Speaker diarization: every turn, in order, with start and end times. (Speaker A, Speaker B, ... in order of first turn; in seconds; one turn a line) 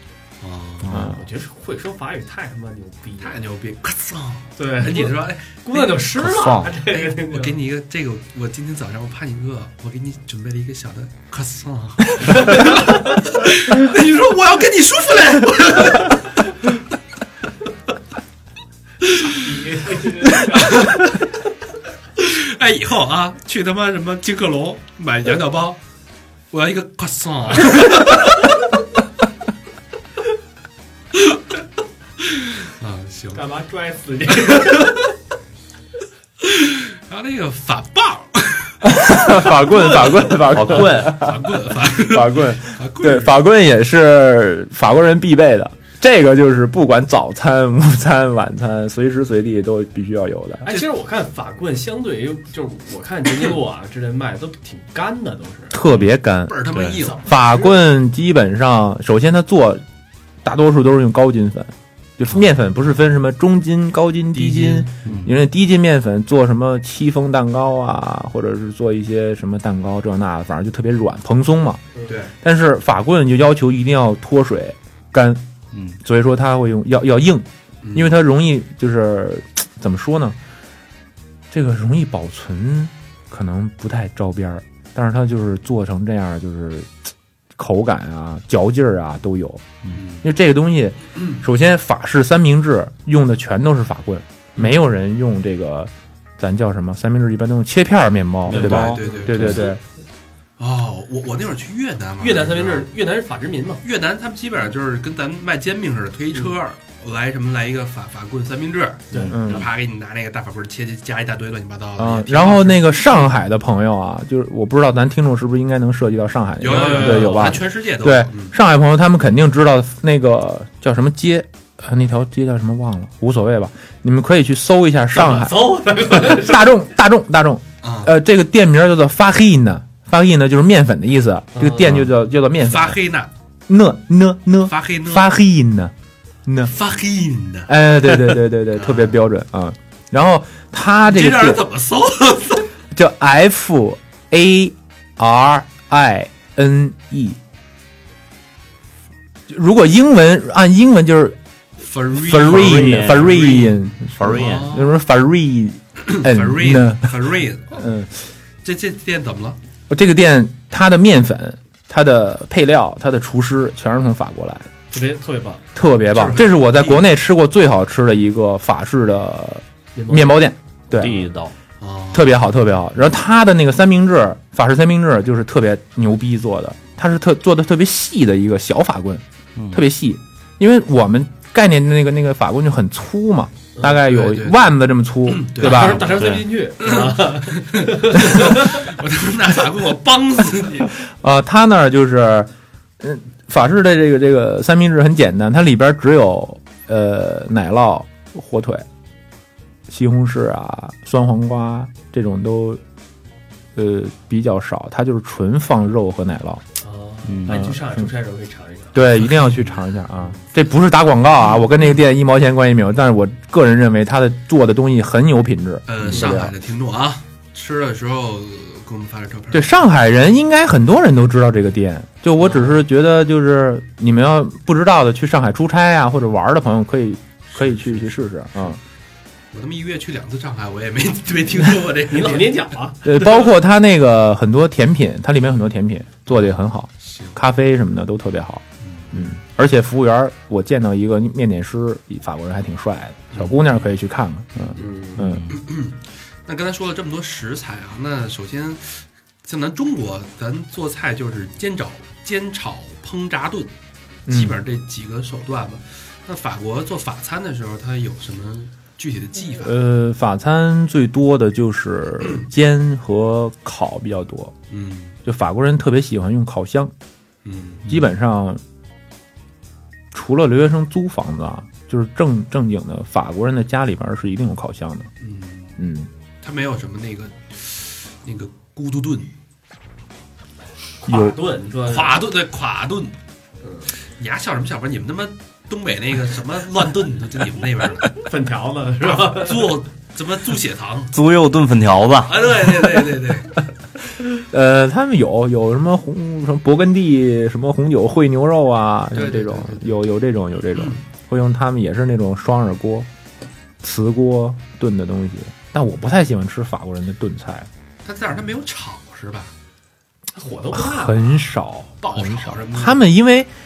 Speaker A: 0.4-1.0
Speaker B: 0.9-1.2
Speaker C: 0.9-3.4
Speaker A: 3.2-6.1
Speaker C: 4.6-7.6
Speaker B: 6.2-6.7
Speaker A: 6.8-16.3
Speaker C: 19.2-21.0
Speaker A: 20.4-21.1
Speaker A: 22.2-25.8
Speaker A: 26.5-28.6
Speaker A: 31.1-31.4
Speaker A: 32.2-33.5
Speaker C: 33.3-35.1
Speaker A: 36.4-43.5
Speaker B: 38.8-50.6
Speaker D: 40.5-41.1
Speaker C: 50.6-55.8
Speaker B: 55.7-59.8
Speaker A: 56.5-57.2
Speaker C: 57.0-57.8
Speaker B: 60.4-71.8
Speaker A: 64.3-64.9
Speaker D: 65.0-65.4
Speaker A: 72.1-72.3
Speaker B: 72.4-75.4
Speaker B: 76.0-80.4
Speaker A: 77.8-78.2
Speaker B: 81.5-87.0
Speaker B: 87.6-89.7
Speaker A: 89.9-90.2
Speaker B: 90.2-99.8
Speaker D: 98.5-99.7
Speaker A: 98.5-99.7
Speaker A: 100.6-102.9
Speaker C: 102.2-103.8
Speaker A: 103.8-113.4
Speaker C: 109.1-109.6
Speaker B: 109.3-109.7
Speaker B: 112.0-133.0
Speaker A: 116.6-118.6
Speaker C: 116.7-117.6
Speaker C: 125.1-126.7
Speaker A: 127.8-128.1
Speaker C: 131.6-132.0
Speaker A: 132.6-133.3
Speaker B: 133.7-135.9
Speaker A: 134.7-135.3
Speaker B: 136.5-136.7
Speaker A: 136.7-139.2
Speaker B: 137.7-141.6
Speaker A: 141.1-142.7
Speaker B: 142.9-147.4
Speaker B: 149.5-151.4
Speaker A: 151.8-155.0
Speaker B: 152.1-158.2
Speaker D: 152.4-154.8
Speaker A: 156.0-157.9
Speaker A: 158.6-159.6
Speaker B: 159.9-164.7
Speaker C: 164.9-165.6
Speaker B: 165.8-171.2
Speaker A: 166.1-167.0
Speaker C: 169.9-170.4
Speaker D: 170.9-171.5
Speaker A: 171.8-172.4
Speaker B: 172.1-186.1
Speaker D: 179.6-179.8
Speaker C: 183.8-184.0
Speaker A: 184.0-186.1
Speaker C: 185.6-188.9
Speaker D: 186.1-186.5
Speaker A: 186.8-191.0
Speaker B: 191.1-198.9
Speaker B: 199.9-202.8
Speaker B: 203.8-206.6
Speaker C: 206.8-209.1
Speaker D: 207.3-207.6
Speaker B: 207.5-208.1
Speaker B: 208.9-216.5
Speaker A: 209.3-209.8
Speaker A: 215.9-219.8
Speaker B: 219.5-228.8
Speaker A: 222.4-222.8
Speaker A: 227.5-228.8
Speaker A: 229.5-232.7
Speaker C: 232.1-233.4
Speaker B: 233.0-245.4
Speaker A: 236.3-237.4
Speaker A: 238.8-239.3
Speaker A: 243.3-243.8
Speaker C: 244.8-245.3
Speaker D: 245.2-245.6
Speaker A: 245.5-253.7
Speaker B: 254.3-254.6
Speaker A: 254.3-259.8
Speaker B: 259.6-264.5
Speaker A: 264.7-265.2
Speaker B: 265.2-266.9
Speaker A: 267.4-267.9
Speaker B: 267.9-268.6
Speaker B: 270.1-275.1
Speaker A: 275.2-275.8
Speaker B: 275.8-276.1
Speaker A: 276.4-279.3
Speaker C: 281.0-282.2
Speaker B: 281.1-281.3
Speaker A: 281.9-283.1
Speaker C: 283.6-283.9
Speaker A: 284.0-288.1
Speaker C: 288.1-289.8
Speaker A: 289.0-291.1
Speaker D: 291.1-292.6
Speaker A: 292.3-293.6
Speaker B: 294.3-303.1
Speaker A: 299.1-299.9
Speaker A: 300.7-301.0
Speaker B: 303.8-307.7
Speaker A: 308.0-309.5
Speaker C: 310.3-311.4
Speaker B: 310.7-313.5
Speaker A: 312.0-313.1